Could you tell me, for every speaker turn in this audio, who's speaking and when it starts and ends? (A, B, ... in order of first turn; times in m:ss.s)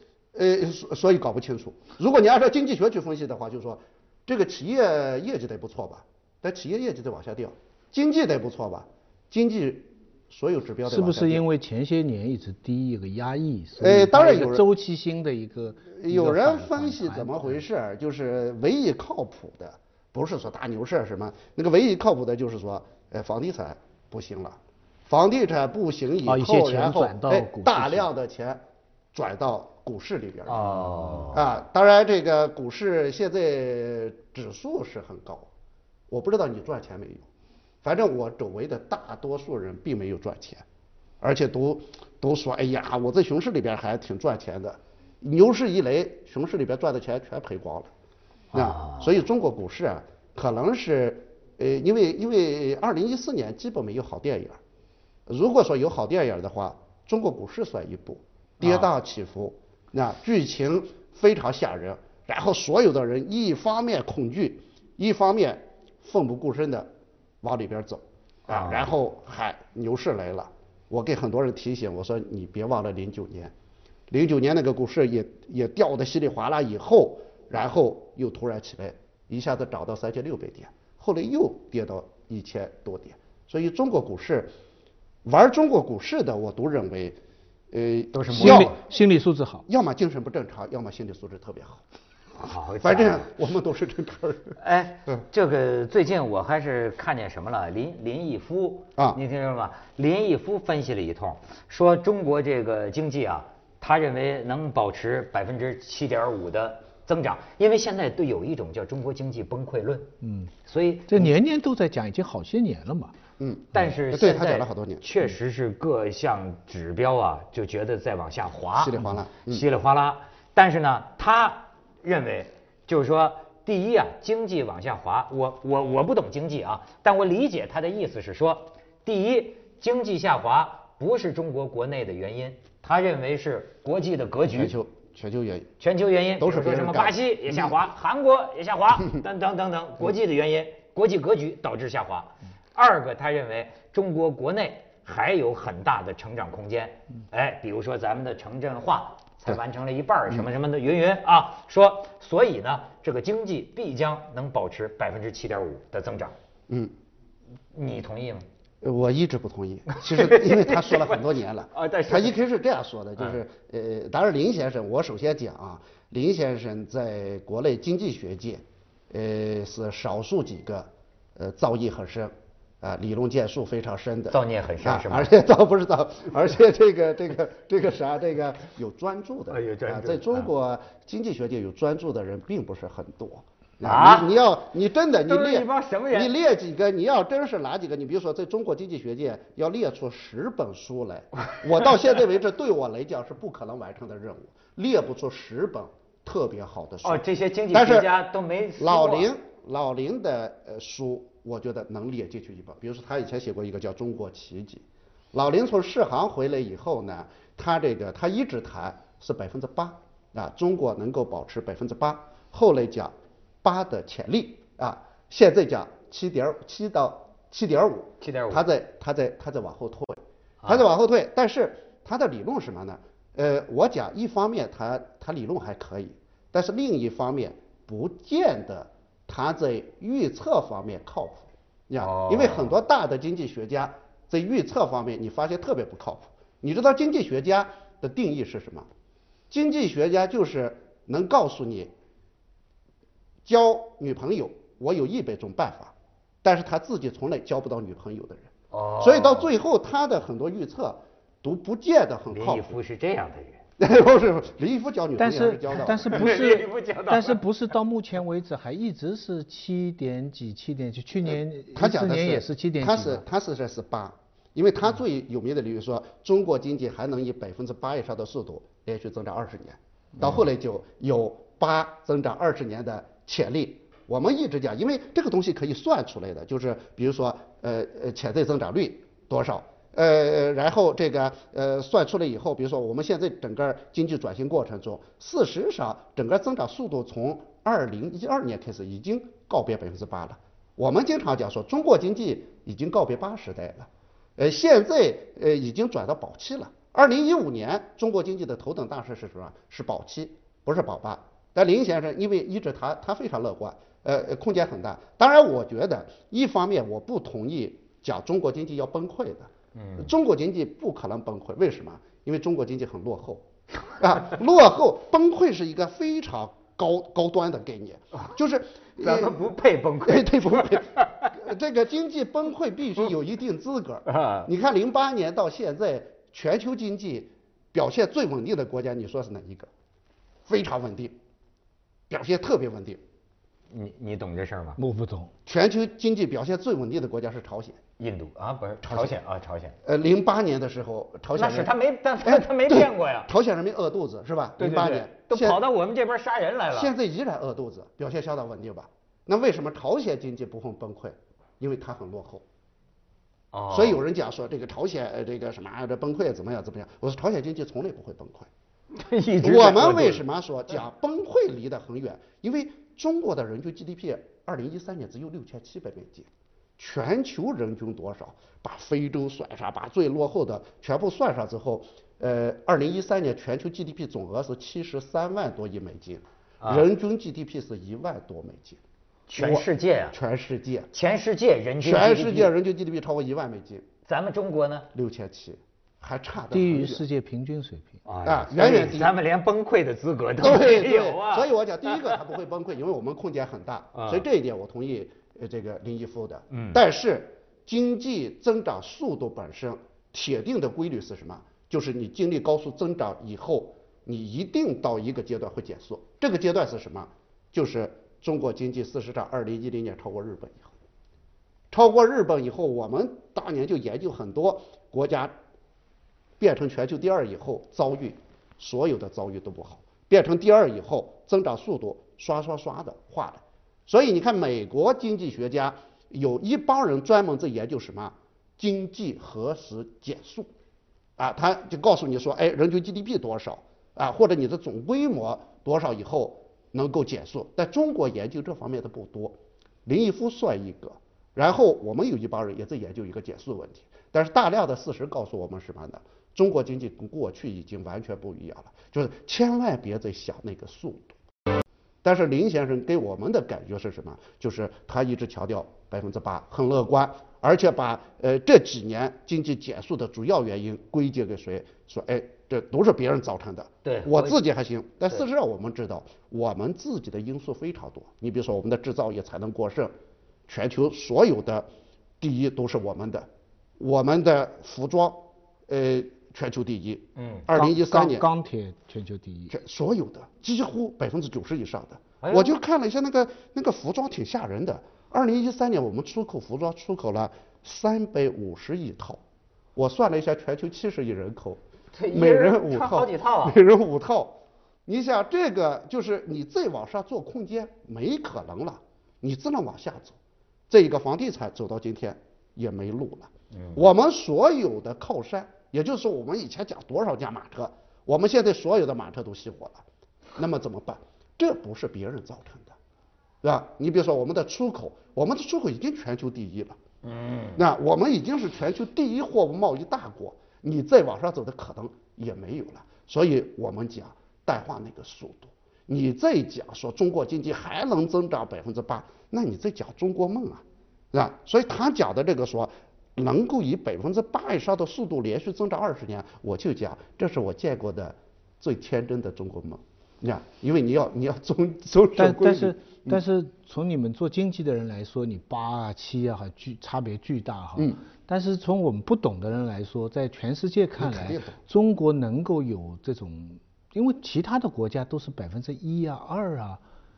0:00.3-0:11.5 A
0:10.8-0:17.6 B
0:13.8-0:14.6 A
0:16.0-0:30.6 A
0:26.2-0:28.1 B
0:30.4-0:31.4 C
0:30.8-0:31.2 B
0:31.3-0:35.5 A
0:36.1-0:37.3 A
0:37.8-0:40.6 A
0:41.2-0:47.9 A
0:48.5-0:49.1 C
0:48.5-0:54.6 A
0:55.3-1:06.9 A
0:58.6-0:58.9 C
1:07.4-1:13.5 A
1:08.5-1:08.9 C
1:14.1-1:24.5 A
1:25.2-1:27.2 A
1:27.7-1:28.8 A
1:28.1-1:28.8 C
1:28.3-1:29.6 B
1:29.7-1:31.8 A
1:32.4-1:33.3 C
1:32.8-1:34.6 A
1:34.6-1:50.1 C
1:50.2-1:50.5 B
1:50.6-1:51.2 C
1:51.1-1:53.1 B
1:53.4-1:55.0 A
1:53.7-2:14.7 C
1:58.8-1:59.6 A
2:14.5-2:15.7 A
2:15.8-2:36.3 C
2:16.4-2:17.8 A
2:37.7-2:38.4 C
2:38.8-3:18.1 A
2:39.9-2:42.4 C
2:54.3-2:55.3 C
2:59.5-3:00.5 C
3:03.8-3:04.4 C
3:05.2-3:06.3 C
3:17.0-3:19.3 C
3:18.8-3:58.9 A
3:38.2-3:38.6 C
3:52.0-3:52.7 C
3:59.5-4:01.9 A
4:03.4-4:12.8 A
4:08.7-4:09.5 C
4:12.3-4:13.6 C
4:13.8-4:16.3 A
4:15.2-4:23.2 B
4:16.1-4:17.4 C
4:21.2-5:13.4 A
5:09.7-5:10.1 C
5:14.0-5:19.5 A
5:19.0-5:21.4 C
5:20.0-5:29.7 A
5:24.0-5:24.5 C
5:30.4-5:31.2 A
5:32.1-5:33.0 A
5:33.7-5:34.8 C
5:34.8-5:35.3 B
5:35.4-5:37.8 A
5:38.0-5:39.8 C
5:38.8-5:39.2 A
5:39.8-5:45.6 A
5:41.3-5:43.3 C
5:44.6-5:46.9 C
5:46.7-5:52.4 A
5:53.5-5:54.0 C
5:53.7-5:58.5 A
5:58.9-6:00.2 C
5:59.4-6:18.8 A
6:16.6-6:16.9 C
6:19.3-6:20.2 C
6:19.4-6:20.9 A
6:20.9-6:22.5 C
6:21.8-6:23.9 A
6:24.0-6:24.9 C
6:24.9-6:27.0 A
6:26.5-6:28.0 B
6:28.0-6:32.2 C
6:28.2-6:29.1 A
6:30.4-6:50.7 A
6:33.9-6:34.2 C
6:36.5-6:36.8 C
6:51.7-6:55.3 A
6:56.4-7:10.5 A
7:11.2-7:31.2 A
7:32.0-7:49.9 A
7:43.8-7:44.4 C
7:50.5-7:51.7 A
7:52.2-7:53.3 A
7:53.8-7:58.3 A
7:57.2-7:57.5 C
7:57.5-7:59.5 B
7:59.5-8:09.2 A
8:02.2-8:02.6 C
8:09.8-8:20.2 A
8:11.9-8:13.6 C
8:20.7-8:29.8 A
8:23.5-8:23.8 C
8:30.4-8:32.7 A
8:33.4-8:36.8 A
8:37.0-8:37.6 C
8:37.6-9:03.2 A
9:02.2-9:16.8 B
9:11.0-9:11.6 A